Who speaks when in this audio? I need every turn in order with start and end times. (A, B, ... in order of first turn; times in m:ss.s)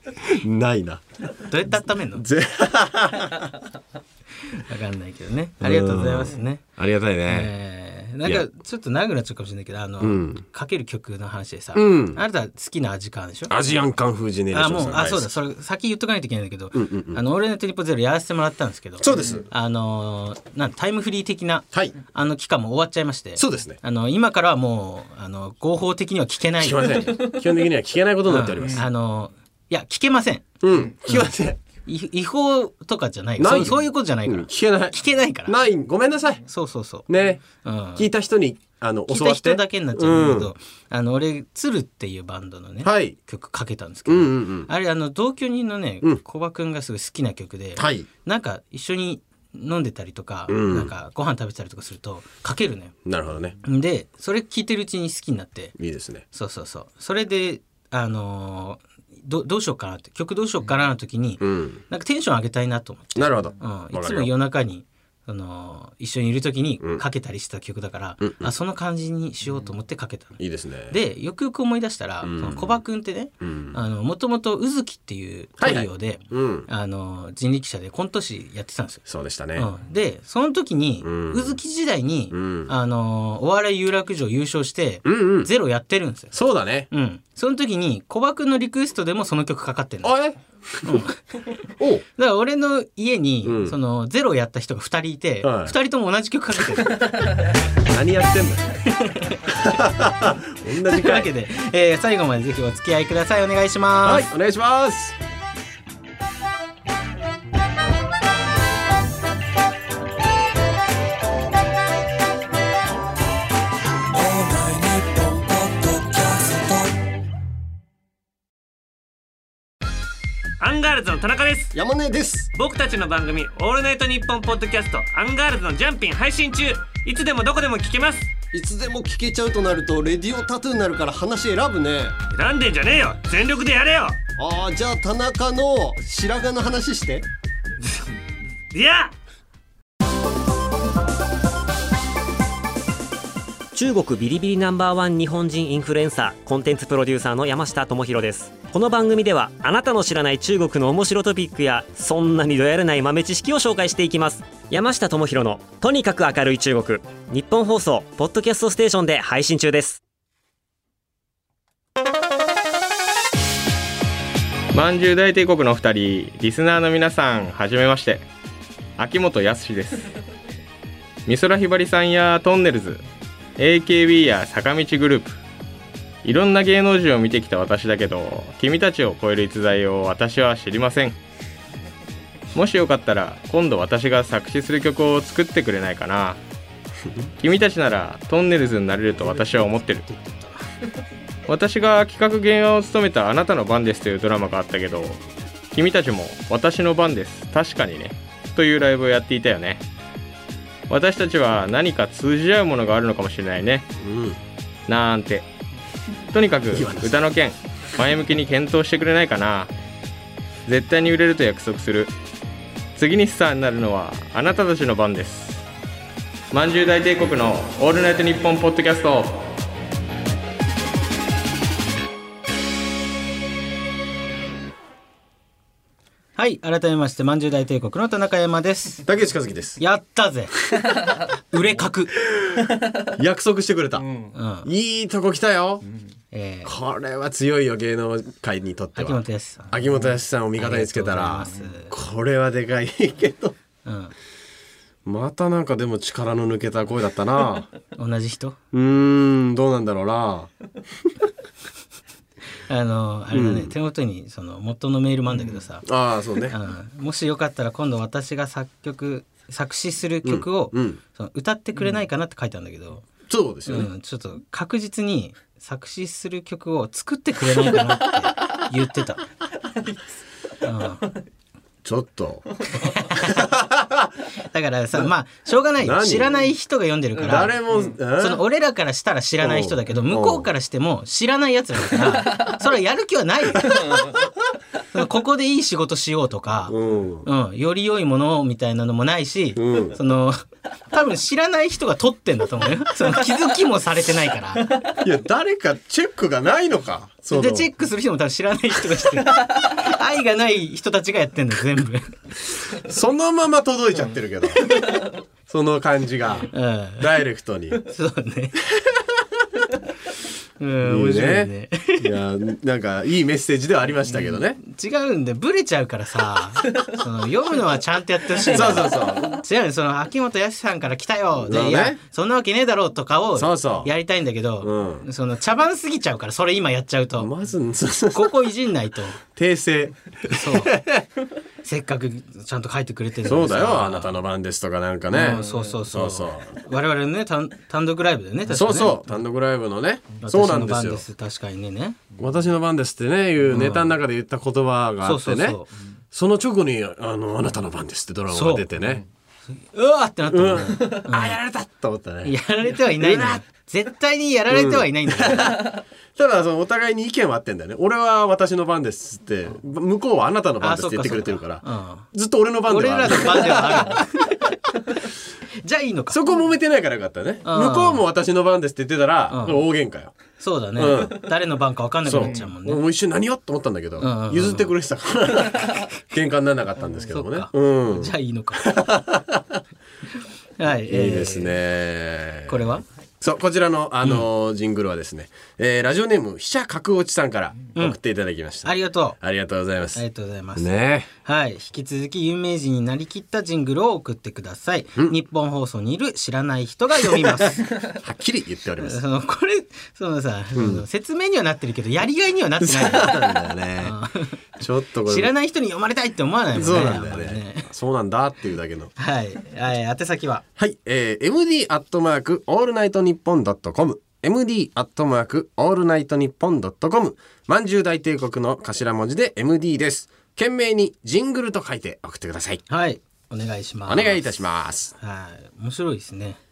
0:00.2-0:01.0 A
0:01.5-0:02.3 B
0:02.2-0:03.5 A
0:04.5-0:06.6 B
0:05.6-0:07.5 A
0:07.3-0:13.6 B
0:10.0-0:10.4 A
0:11.7-0:12.2 A
0:13.5-0:15.4 A
0:14.5-0:27.2 B
0:16.7-0:17.2 A
0:19.0-0:19.5 A
0:23.4-0:23.8 A
0:26.6-0:28.9 A
0:28.3-0:30.5 B
0:30.6-0:31.6 A
0:31.9-0:35.6 B
0:33.4-0:36.5 A
0:36.5-0:38.1 B
0:37.1-0:37.4 A
0:38.0-0:40.5 A
0:39.1-0:53.0 B
0:42.8-0:43.2 A
0:44.1-0:44.7 A
0:47.8-0:48.1 A
0:50.5-0:50.9 A
0:53.0-0:53.6 A
0:53.6-0:55.8 B
0:55.8-0:56.2 A
0:56.3-1:10.4 B
1:01.4-1:01.8 A
1:03.2-1:04.3 A
1:08.2-1:08.5 A
1:10.4-1:11.0 A
1:10.9-1:19.0 B
1:12.2-1:12.8 A
1:13.4-1:13.8 A
1:15.6-1:16.7 A
1:19.1-1:19.7 A
1:19.6-1:26.4 B
1:21.0-1:21.6 A
1:22.3-1:22.7 A
1:25.0-1:25.5 A
1:26.3-1:26.9 A
1:26.9-1:30.2 B
1:30.0-1:31.0 A
1:30.8-1:31.2 B
1:31.8-1:32.0 A
1:32.2-1:37.2 B
1:33.4-1:33.8 A
1:35.4-1:35.8 A
1:37.8-1:38.8 A
1:38.9-1:39.6 B
1:39.4-1:41.3 A
1:40.8-1:44.2 B
1:44.0-1:45.2 A
1:54.2-1:56.6 C
2:00.6-2:01.7 C
2:01.7-2:02.5 D
2:02.5-2:08.3 C
2:08.5-2:12.2 D
2:12.3-2:14.2 C
2:14.4-2:17.3 D
2:18.7-2:19.1 C
2:23.7-2:40.0 E
2:44.7-2:48.2 F
2:49.0-2:50.1 F
2:51.3-2:53.0 F
2:53.6-2:55.4 F
2:56.2-3:01.2 F
3:02.5-3:06.4 F
3:07.4-3:10.0 F
3:09.6-3:10.6 B
3:11.5-3:19.8 F
3:20.9-3:23.9 F
3:24.0-3:24.4 A
3:24.9-3:25.5 F
3:26.3-3:29.7 F
3:26.7-3:27.3 A
3:30.7-3:32.1 F
3:33.0-3:35.6 F
3:36.5-3:39.5 F
3:46.4-3:49.0 B
3:49.1-3:49.8 A
3:49.8-3:50.6 B
3:51.2-3:52.2 B
3:53.0-3:55.9 A
3:54.3-3:54.7 B
3:56.3-3:56.7 B
3:56.6-4:03.6 A
3:59.0-3:59.7 B
4:00.6-4:01.9 B
4:03.8-4:04.1 B
4:05.0-4:07.7 A
4:08.0-4:08.6 B
4:08.7-4:10.5 A
4:12.7-4:15.9 B
4:13.3-4:13.8 A
4:15.8-4:16.6 A
4:16.5-4:23.1 B
4:20.2-4:21.0 A
4:23.3-4:23.9 A
4:23.7-4:29.2 B
4:30.6-4:31.1 B
4:31.8-4:32.6 A
4:32.8-4:33.5 B
4:33.2-4:34.1 A
4:34.5-4:37.6 B
4:35.8-4:36.4 A
4:37.2-4:38.4 A
4:38.2-4:44.2 B
4:39.4-4:40.5 A
4:44.9-4:54.8 B
4:46.7-4:47.3 A
4:49.6-4:50.0 A
4:54.9-4:57.7 A
4:57.3-5:02.2 B
5:02.7-5:04.8 A
5:05.5-5:07.8 A
5:06.5-5:07.1 B
5:07.8-5:08.6 B
5:10.6-5:12.1 B
5:10.8-5:14.6 A
5:14.6-5:27.3 B
5:18.5-5:19.4 A
5:21.4-5:22.0 A
5:23.4-5:23.9 A
5:24.6-5:25.1 A
5:27.2-5:28.4 A
5:28.1-5:29.2 B
5:29.4-5:31.1 A
5:30.3-5:30.8 B
5:31.6-5:34.1 B
5:33.2-5:36.6 A
5:35.1-5:39.0 B
5:38.5-5:41.0 A
5:40.2-5:42.0 B
5:42.2-5:45.6 A
5:43.5-5:44.0 B
5:45.0-5:45.7 B
5:46.1-5:49.1 A
5:48.3-5:48.7 B
5:49.7-5:51.4 B
5:50.3-5:53.4 A
5:52.2-5:55.7 B
5:54.5-6:04.0 A
6:00.6-6:02.1 B
6:02.7-6:04.5 B
6:05.6-6:06.2 B
6:06.1-6:10.2 A
6:07.5-6:08.1 B
6:09.3-6:09.6 B
6:10.4-6:12.8 B
6:10.8-6:11.3 A
6:12.0-6:19.6 A
6:14.0-6:14.7 B
6:17.1-6:18.7 B
6:20.6-6:21.6 B
6:20.9-6:30.0 A
6:22.5-6:22.8 B
6:28.6-6:29.2 B
6:30.0-6:30.7 B
6:30.6-6:31.1 A
6:31.2-6:37.7 B
6:37.1-6:39.0 A
6:38.8-6:44.4 B
6:40.6-6:40.8 A
6:42.6-6:44.0 A
6:44.6-6:45.3 A
6:45.1-6:47.7 B
6:46.5-6:48.9 A
6:49.0-6:50.4 B
6:50.6-7:02.6 A
7:02.7-7:04.3 B
7:03.9-7:04.9 A
7:05.0-7:06.4 B